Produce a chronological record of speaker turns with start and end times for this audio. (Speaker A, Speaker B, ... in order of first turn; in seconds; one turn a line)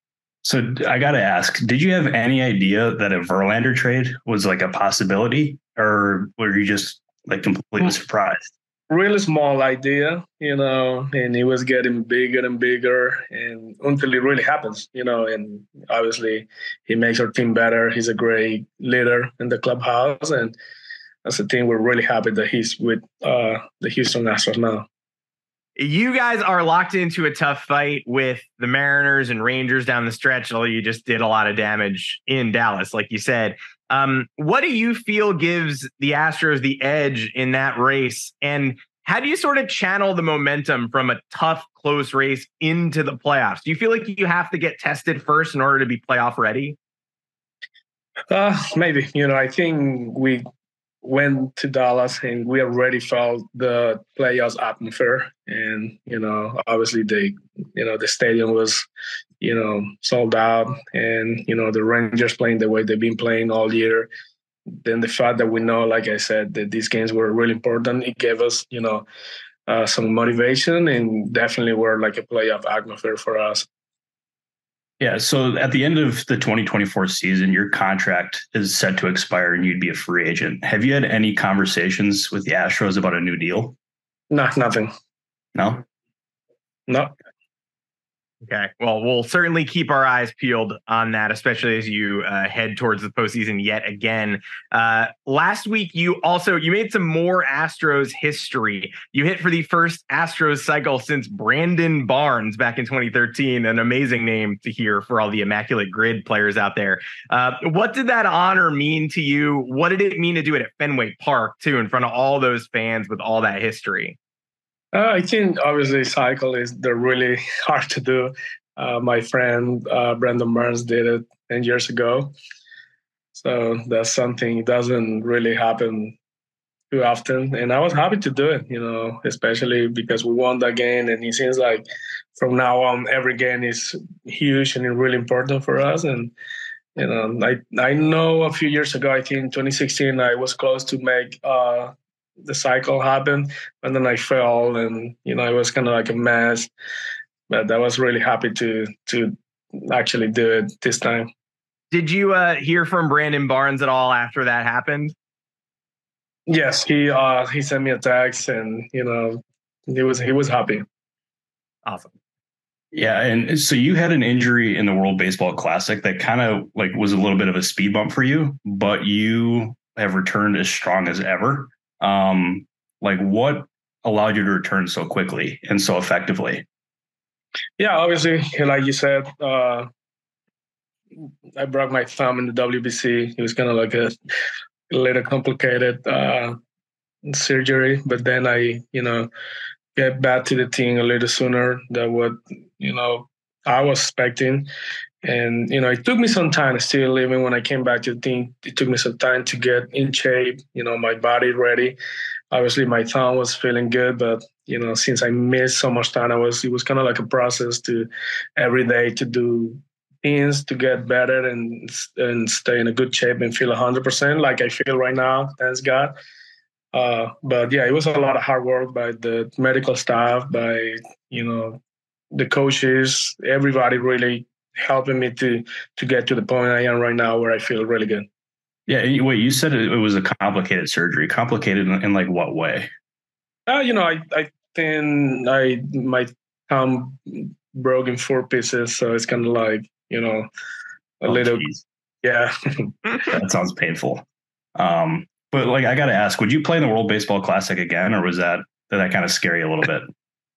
Speaker A: 0.4-8.5
Speaker B: 8.9-20.6
Speaker B: 21.2-24.9
Speaker C: 25.8-46.8
Speaker B: 48.3-50.4
Speaker B: 51.0-58.9
Speaker B: 59.4-64.1
Speaker B: 64.8-69.0
Speaker B: 69.7-73.7
Speaker A: 75.0-83.8
Speaker B: 84.3-84.9
Speaker A: 85.5-85.8
Speaker B: 86.9-87.1
Speaker C: 88.4-114.2
Speaker B: 114.9-122.3
Speaker B: 123.3-126.2
Speaker B: 126.9-131.8
Speaker B: 132.4-136.3
Speaker B: 136.9-146.7
Speaker B: 147.5-151.3
Speaker C: 151.9-155.1
Speaker B: 156.5-160.8
Speaker C: 161.8-162.1
Speaker A: 162.9-176.6
Speaker B: 177.8-179.9
Speaker B: 181.6-184.2
Speaker B: 184.9-186.6
Speaker B: 187.2-189.3
Speaker B: 189.9-194.7
Speaker B: 195.2-202.0
Speaker B: 202.5-216.1
Speaker B: 216.9-221.8
Speaker B: 222.3-228.3
Speaker A: 228.9-232.9
Speaker B: 233.7-240.5
Speaker B: 241.2-241.6
Speaker A: 241.3-241.8
Speaker B: 242.2-242.9
Speaker A: 243.3-244.2
Speaker A: 244.8-250.1